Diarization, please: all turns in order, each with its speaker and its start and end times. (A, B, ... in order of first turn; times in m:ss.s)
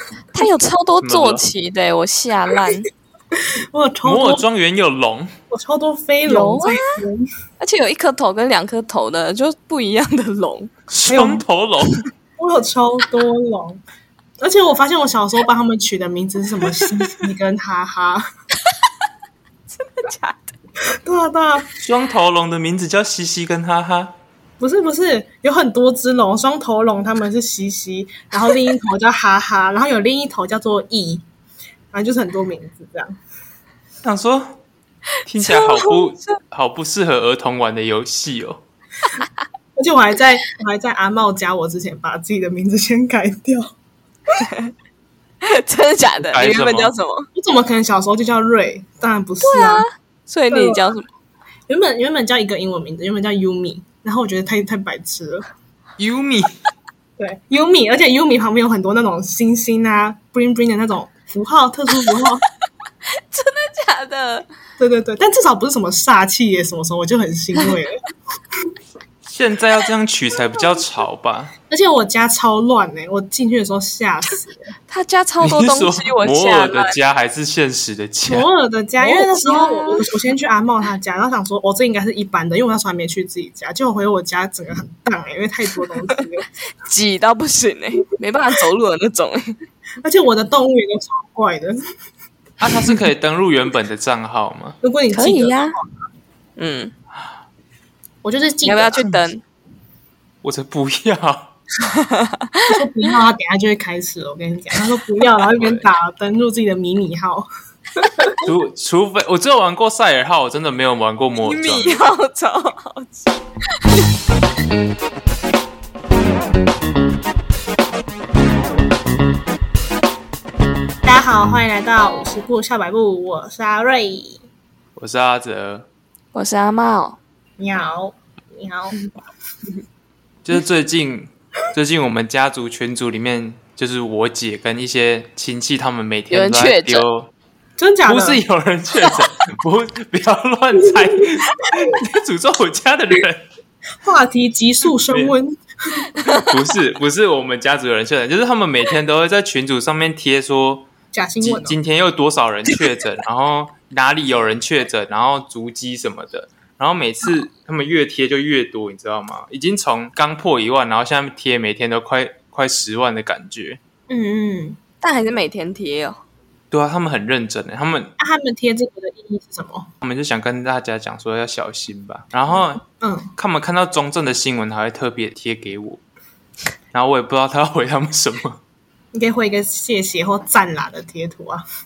0:00.3-0:02.9 A
0:01.0-0:01.4 B
0:03.7-0:04.4 C
0:04.0-0:05.3 B
0:05.5-0:07.3 C
0:06.2-0:06.9 A
0:07.6-0:10.7 A
0:10.9-0:12.0 B
0:11.1-0:11.4 C
0:12.4-0:13.8 C
0:14.4-0:18.2 C
0:19.7-0:20.5 A
0:20.8-0:21.7 C
0:21.8-0:24.1 B
0:24.6-0:31.2 C
0:31.9-0:33.2 C
0:34.0-0:34.6 B
0:35.2-0:38.6 B
0:39.8-0:43.7 C
0:44.4-0:44.7 A
0:45.4-0:47.3 A
0:46.2-0:46.9 B
0:47.3-0:49.8 C
0:49.4-0:51.1 A
0:50.5-0:50.9 C
0:51.7-0:55.5 C
0:56.0-0:56.6 B
0:57.2-1:02.4 C
1:03.1-1:04.5 A
1:04.8-1:08.0 C
1:09.2-1:11.5 B
1:11.7-1:14.7 C
1:14.9-1:16.9 A
1:15.4-1:18.5 B
1:18.2-1:26.5 C
1:19.0-1:20.1 A
1:26.8-1:29.6 A
1:30.0-1:31.8 C
1:32.6-1:34.8 B
1:34.8-1:36.0 C
1:35.1-1:35.8 A
1:36.6-1:36.9 A
1:38.2-1:39.0 C
1:38.6-1:39.4 A
1:39.0-1:39.3 B
1:40.4-1:41.6 B
1:41.9-1:42.7 A
1:42.6-1:47.5 C
1:45.5-1:45.8 B
1:48.0-1:48.3 C
1:48.4-1:52.0 B
1:51.4-1:53.4 A
2:01.0-2:04.4 C
2:05.0-2:05.9 B
2:06.3-2:07.2 A
2:07.6-2:09.0 C
2:10.4-2:17.3 B
2:16.3-2:17.0 A
2:17.8-2:18.4 C
2:18.0-2:23.4 B
2:24.0-2:26.1 C
2:25.1-2:25.3 B
2:26.2-2:30.9 B
2:31.1-2:31.8 C
2:31.4-2:43.8 B
2:44.1-2:44.8 C
2:45.0-2:46.2 A
2:46.7-2:48.1 B
2:48.2-2:49.9 C
2:50.0-2:52.8 B
2:52.5-2:53.3 C
2:53.4-2:56.0 B
2:56.9-2:58.6 B
2:59.1-3:01.6 C